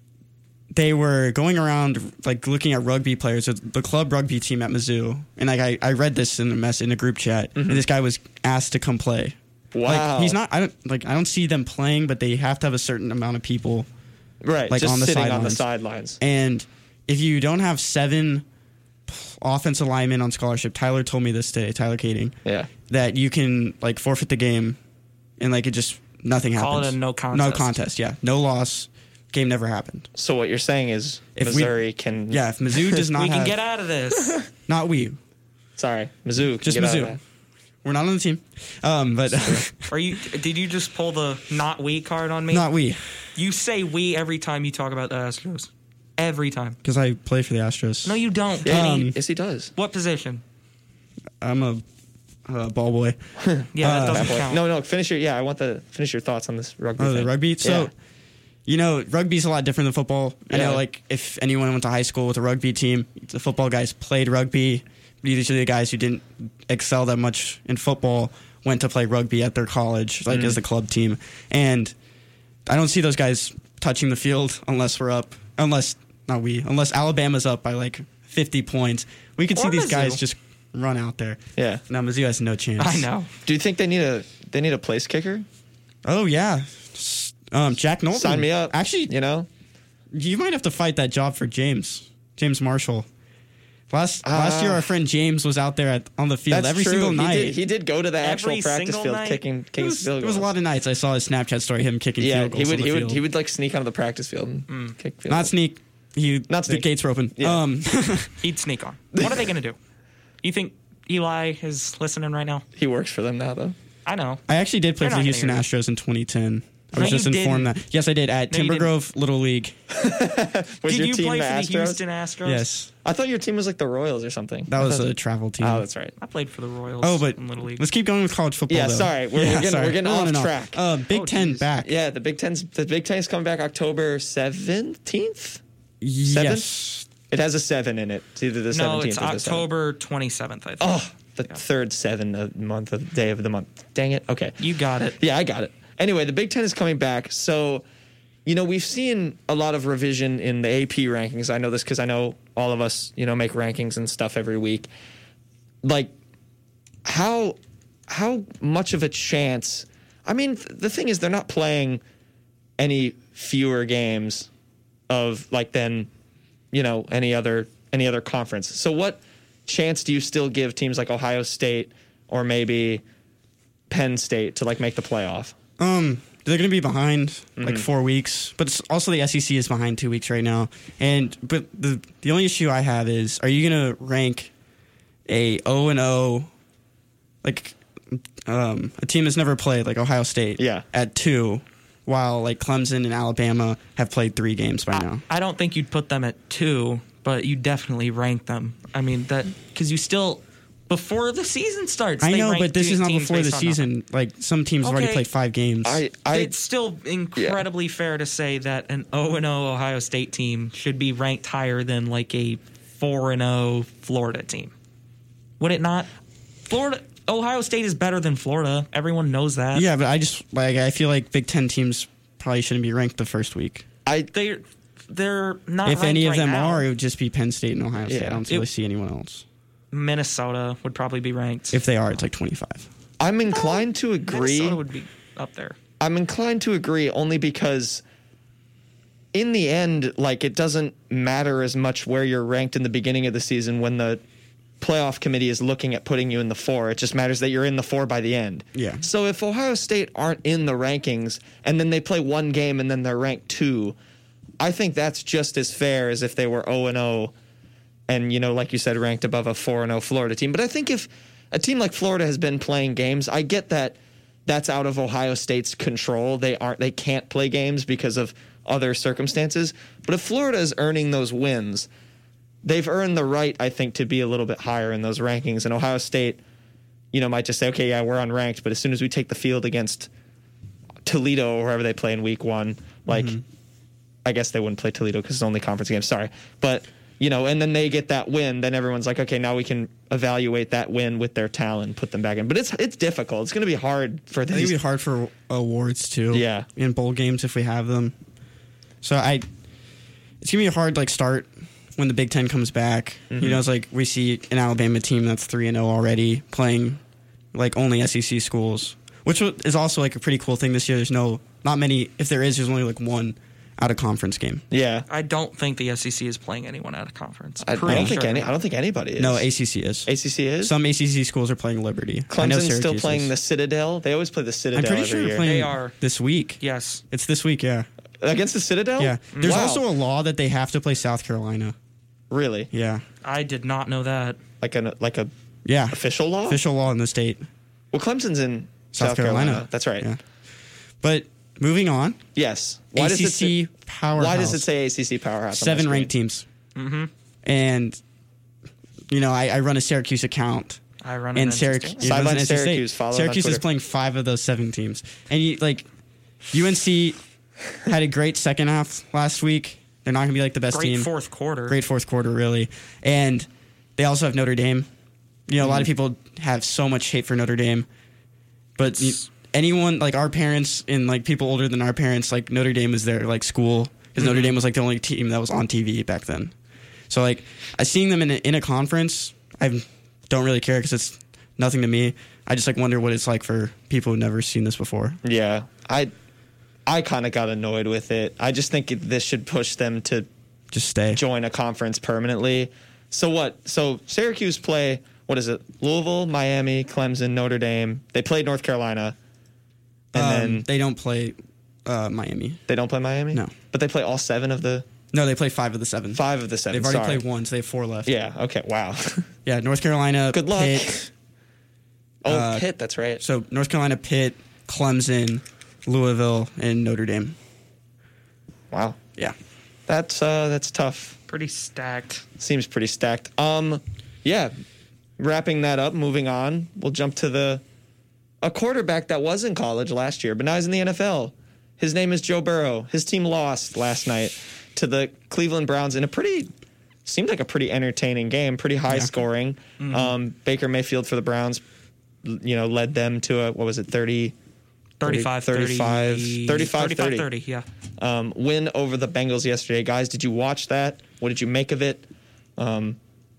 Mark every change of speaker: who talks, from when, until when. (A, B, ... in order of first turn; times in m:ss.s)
0:00.7-0:13.9 A
0:07.6-0:07.8 B
0:09.7-0:10.4 B
0:14.4-0:16.2 B
0:14.7-0:15.6 A
0:16.2-0:18.4 A
0:19.1-0:22.4 A
0:22.4-0:22.7 B
0:22.9-0:24.8 A
0:25.4-0:30.1 A
0:26.6-0:27.7 C
0:30.2-0:33.0 B
0:31.4-0:33.6 A
0:33.1-0:34.4 C
0:34.7-0:35.2 A
0:35.8-0:37.2 B
0:36.6-0:37.2 A
0:37.8-0:39.9 A
0:39.3-0:39.7 B
0:39.9-0:42.7 C
0:42.5-0:43.0 A
0:43.4-0:46.8 C
0:46.8-0:49.2 A
0:48.0-0:48.8 C
0:48.6-0:49.7 B
0:49.8-0:50.4 C
0:51.4-0:51.8 A
0:52.5-0:53.2 A
0:53.4-0:57.9 B
0:53.8-0:54.6 C
0:53.8-0:54.3 A
0:57.0-0:57.9 A
0:58.7-1:11.9 A
1:00.5-1:00.8 B
1:10.3-1:10.6 B
1:12.7-1:23.1 A
1:19.6-1:20.2 C
1:21.6-1:21.8 B
1:22.8-1:23.3 C
1:23.4-1:25.5 B
1:26.0-1:29.1 A
1:28.1-1:29.5 B
1:30.1-1:33.1 A
1:33.9-1:37.6 A
1:34.2-1:34.9 B
1:36.5-1:40.5 B
1:38.2-1:39.4 C
1:39.8-1:43.2 A
1:42.2-1:45.5 B
1:44.7-1:45.0 C
1:45.3-1:48.3 A
1:46.5-1:47.6 B
1:48.4-1:49.8 C
1:49.1-1:49.5 B
1:50.4-1:52.6 C
1:52.8-1:53.8 B
1:54.1-1:54.4 C
1:54.5-1:59.7 A
1:55.0-1:55.6 C
1:57.0-1:57.7 C
1:58.5-1:58.9 C
1:59.9-2:02.0 B
2:00.9-2:02.7 C
2:02.4-2:02.9 A
2:03.0-2:06.2 B
2:04.7-2:05.9 A
2:06.2-2:07.8 C
2:07.0-2:11.9 A
2:08.7-2:10.8 B
2:11.1-2:11.6 C
2:11.8-2:15.6 B
2:16.0-2:17.1 A
2:16.3-2:16.7 B
2:17.3-2:19.7 B
2:18.7-2:21.0 C
2:20.8-2:24.6 B
2:24.6-2:25.2 C
2:25.2-2:27.8 B
2:28.5-2:34.9 B
2:35.8-2:36.1 B
2:37.0-2:37.6 B
2:38.1-2:42.0 B
2:42.8-2:44.5 B
2:45.1-2:46.1 B
2:46.7-2:53.0 B
2:53.9-2:55.6 B
2:55.8-3:04.5 A
2:57.6-2:57.9 B
3:05.3-3:06.5 A
3:07.4-3:15.2 A
3:10.6-3:10.9 B
3:15.3-3:23.9 C
3:22.2-3:26.0 A
3:24.8-3:25.3 C
3:25.8-3:26.6 B
3:26.3-3:34.7 C
3:27.4-3:27.6 B
3:35.6-3:36.1 C
3:36.7-3:39.9 C
3:39.7-3:43.8 A
3:44.1-3:44.3 B
3:44.3-3:46.9 C
3:45.8-3:49.4 A
3:48.1-3:48.4 B
3:49.9-3:51.8 C
3:51.7-3:52.9 A
3:53.2-3:54.8 B
3:54.3-3:55.8 C
3:56.0-3:58.0 B
3:59.3-4:04.2 B
4:04.8-4:14.0 B
4:08.8-4:09.0 A
4:14.6-4:17.3 B
4:18.1-4:31.9 B
4:32.6-4:36.4 B
4:37.1-4:40.1 B
4:41.0-4:43.4 B
4:43.1-4:43.4 A
4:44.2-4:54.8 B
4:54.5-4:58.2 A
4:56.3-4:56.7 B
4:59.0-4:59.5 A
5:00.4-5:07.0 A
5:03.3-5:03.6 B
5:07.5-5:14.6 A
5:14.7-5:15.1 B
5:15.1-5:18.5 C
5:17.6-5:19.5 B
5:17.9-5:18.2 A
5:19.2-5:23.3 A
5:20.1-5:20.7 B
5:22.3-5:25.5 B
5:24.7-5:26.6 A
5:25.4-5:26.0 C
5:26.6-5:27.0 C
5:27.1-5:27.9 A
5:28.2-5:29.8 B
5:29.0-5:31.8 A
5:29.3-5:29.6 C
5:32.3-5:32.7 B
5:32.7-5:33.0 A
5:33.2-5:34.4 C
5:34.6-5:35.3 B
5:35.6-5:37.4 A
5:35.9-5:36.6 B
5:37.9-5:40.1 B
5:38.9-5:40.2 A
5:41.0-5:42.2 A
5:42.4-5:46.1 B
5:43.0-5:44.7 A
5:45.5-5:46.4 A
5:46.8-5:47.1 C
5:47.4-5:48.0 A
5:49.1-5:50.8 A
5:51.0-5:52.0 C
5:51.4-5:55.9 A
5:52.0-5:53.6 B
5:56.5-5:57.2 A
5:57.8-6:01.1 A
6:00.7-6:01.8 C
6:01.7-6:04.9 A
6:05.5-6:07.9 A
6:08.8-6:16.5 A
6:08.8-6:09.2 C
6:14.2-6:14.6 C
6:17.1-6:25.2 A
6:25.2-6:26.1 B
6:26.9-6:30.3 B
6:30.7-6:31.2 A
6:31.1-6:39.2 B
6:40.1-6:40.7 B
6:40.1-6:42.6 A
6:42.7-6:44.9 B
6:45.1-6:48.1 A
6:46.1-6:47.2 B
6:48.1-6:49.3 B
6:49.4-6:51.0 A
6:50.3-6:51.1 B
6:52.2-6:53.2 B
6:52.3-6:52.7 A
6:53.2-6:57.4 A
6:58.7-6:59.0 B
6:59.9-7:01.2 B
7:01.3-7:02.2 C
7:02.4-7:04.5 B
7:05.2-7:07.6 B
7:08.4-7:16.5 B
7:17.0-7:21.6 B
7:19.8-7:20.1 C
7:22.2-7:24.4 B
7:25.0-7:27.7 C
7:25.0-7:27.3 B
7:28.0-7:32.0 B
7:32.6-7:33.0 B